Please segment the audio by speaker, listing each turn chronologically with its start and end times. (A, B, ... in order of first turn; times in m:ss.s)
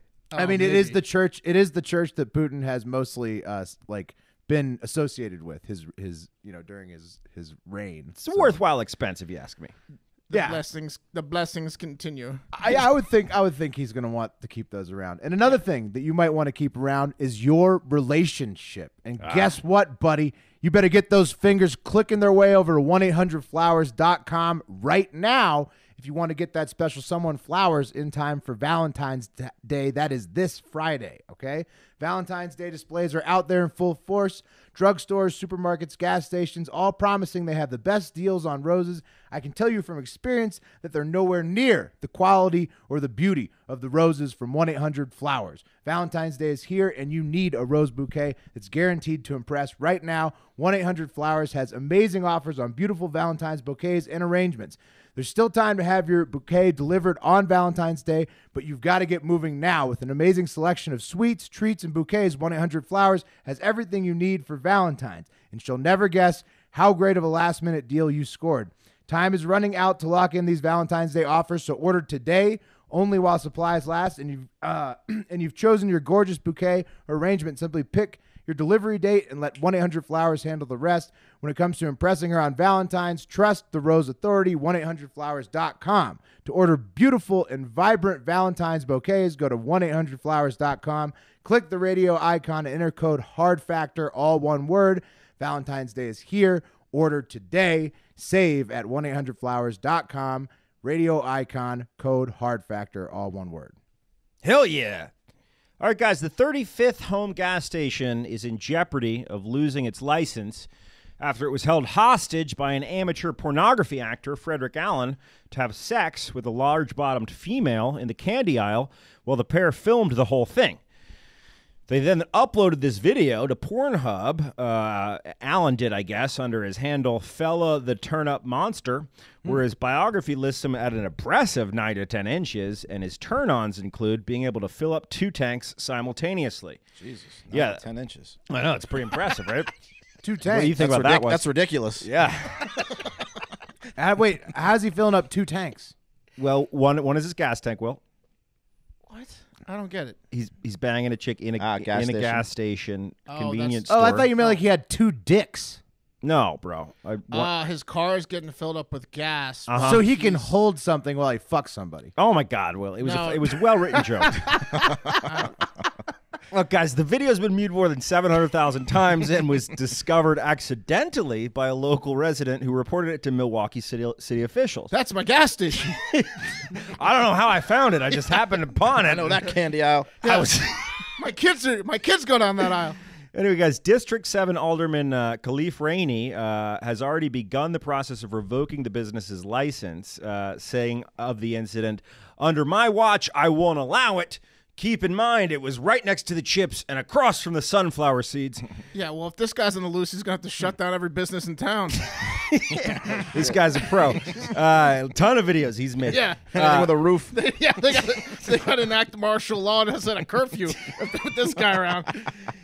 0:00.3-0:01.0 A
0:00.3-0:08.6 B
0:08.2-0:09.7 C
0:10.3-0:12.4 A
0:10.3-0:10.6 B
0:12.5-1:43.8 B
0:19.2-0:19.6 C
1:44.4-1:45.1 C
1:45.8-1:50.7 C
1:51.2-2:00.8 C
2:01.9-2:16.8 C
2:17.0-2:18.4 D
2:17.5-2:17.8 C
2:18.5-2:19.7 C
2:20.2-2:20.8 B
2:20.4-2:21.4 C
2:20.8-2:22.1 D
2:22.0-2:22.8 C
2:24.0-2:25.9 B
2:26.4-2:28.0 C
2:29.1-2:30.2 A
2:30.3-2:34.3 C
2:31.6-2:32.4 D
2:33.3-2:34.6 A
2:33.9-2:35.8 B
2:36.2-2:37.5 C
2:37.3-2:40.5 A
2:39.7-2:40.0 C
2:39.8-2:42.1 B
2:42.2-2:44.8 C
2:43.0-2:43.6 A
2:44.3-2:45.0 B
2:45.2-2:45.6 A
2:46.5-2:54.9 C
2:54.9-2:56.0 A
2:56.0-2:59.5 C
2:59.0-3:00.4 D
3:00.2-3:01.0 C
3:01.2-3:03.0 A
3:03.3-3:18.6 C
3:18.9-3:22.2 A
3:22.5-3:27.0 C
3:23.1-3:23.5 D
3:26.1-3:26.5 A
3:26.5-3:27.4 D
3:27.3-3:32.3 A